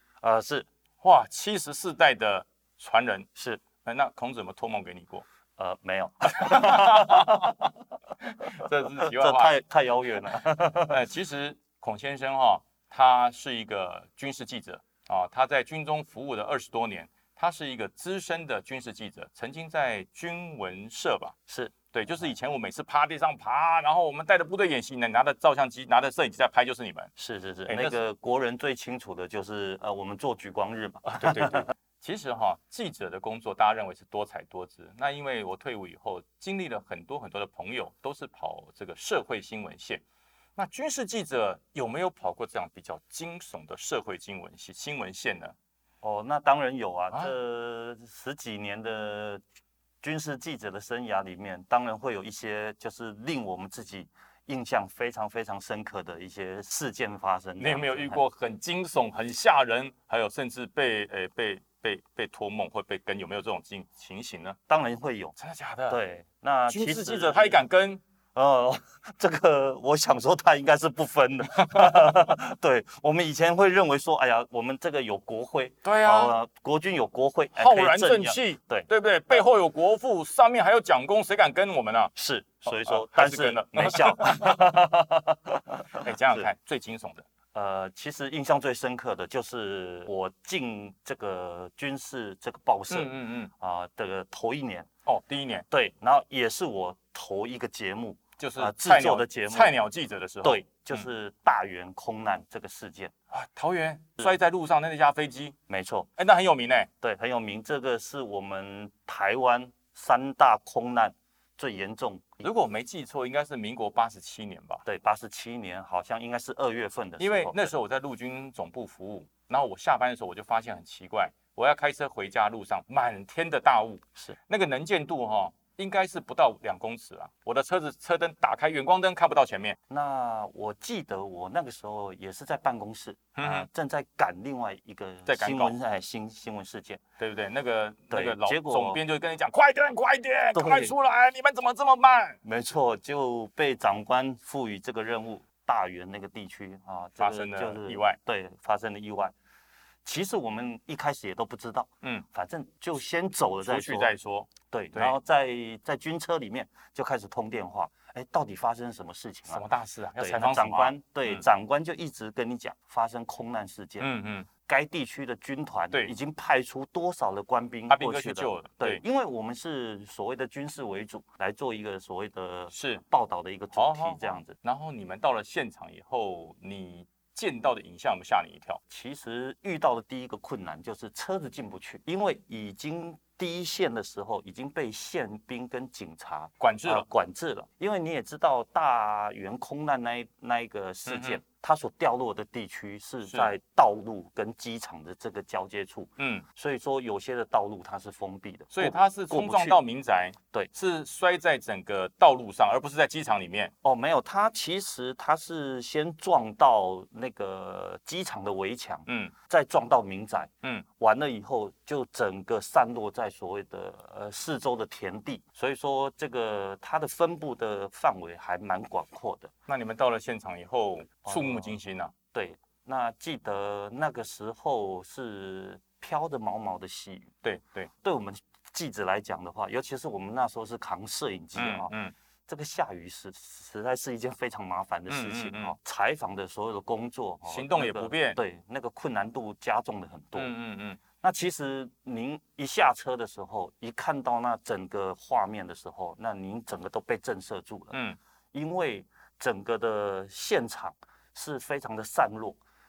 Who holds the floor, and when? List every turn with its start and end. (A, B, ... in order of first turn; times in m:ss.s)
0:00.2-0:00.7 A
0:01.0-0:03.3 B
0:03.4-0:03.6 A
0:03.8-0:05.2 B
0:05.6-0:07.7 A
0:06.3-0:07.5 B
0:08.2-0:09.6 B
0:08.5-0:11.0 A
0:10.9-0:21.3 B
0:21.5-0:22.3 A
0:21.9-0:27.1 B
0:27.2-0:31.7 A
0:27.7-0:28.0 B
0:31.1-0:40.0 B
0:40.6-0:45.6 B
0:46.0-0:49.4 A
0:50.0-0:58.2 A
0:57.6-1:04.6 B
1:04.7-1:05.3 A
1:05.4-1:06.0 B
1:05.9-1:07.6 A
1:06.7-1:08.0 B
1:08.3-1:19.4 A
1:11.7-1:12.3 B
1:15.8-1:16.4 B
1:17.6-1:22.1 B
1:22.2-1:26.5 A
1:22.6-1:24.6 B
1:26.0-1:27.3 B
1:27.5-1:34.9 A
1:32.9-1:33.5 B
1:35.0-1:35.6 B
1:35.7-1:39.7 A
1:38.4-1:41.0 B
1:40.4-1:43.1 A
1:43.3-1:45.6 B
1:45.7-1:46.1 A
1:46.2-1:46.9 B
1:47.0-1:52.5 A
1:52.4-1:54.8 B
1:54.8-1:57.7 A
1:57.2-2:09.8 B
2:09.9-2:17.0 A
2:13.4-2:13.7 B
2:15.3-2:15.8 B
2:17.2-2:22.4 B
2:18.1-2:19.0 A
2:20.6-2:20.9 A
2:22.4-2:29.3 A
2:27.2-2:28.2 B
2:30.0-2:34.1 A
2:33.6-2:35.2 B
2:34.7-2:39.7 A
2:39.5-2:41.4 B
2:40.2-2:44.1 A
2:44.0-2:44.5 B
2:44.6-2:54.6 A
2:47.9-2:49.0 B
2:52.7-2:53.0 B
2:53.8-2:58.8 B
2:58.9-3:19.8 A
3:06.6-3:07.1 B
3:11.1-3:11.4 B
3:16.2-3:16.4 B
3:18.7-3:23.7 B
3:23.8-3:39.5 A
3:29.1-3:29.3 B
3:39.7-3:42.1 B
3:41.2-3:41.8 A
3:42.3-3:47.3 A
3:47.4-3:47.9 B
3:48.0-3:51.9 A
3:51.6-3:52.1 B
3:52.5-4:00.6 A
3:55.1-3:55.8 B
3:57.4-3:58.4 B
4:00.4-4:01.0 B
4:01.2-4:08.0 A
4:07.9-4:08.2 B
4:08.5-4:12.6 A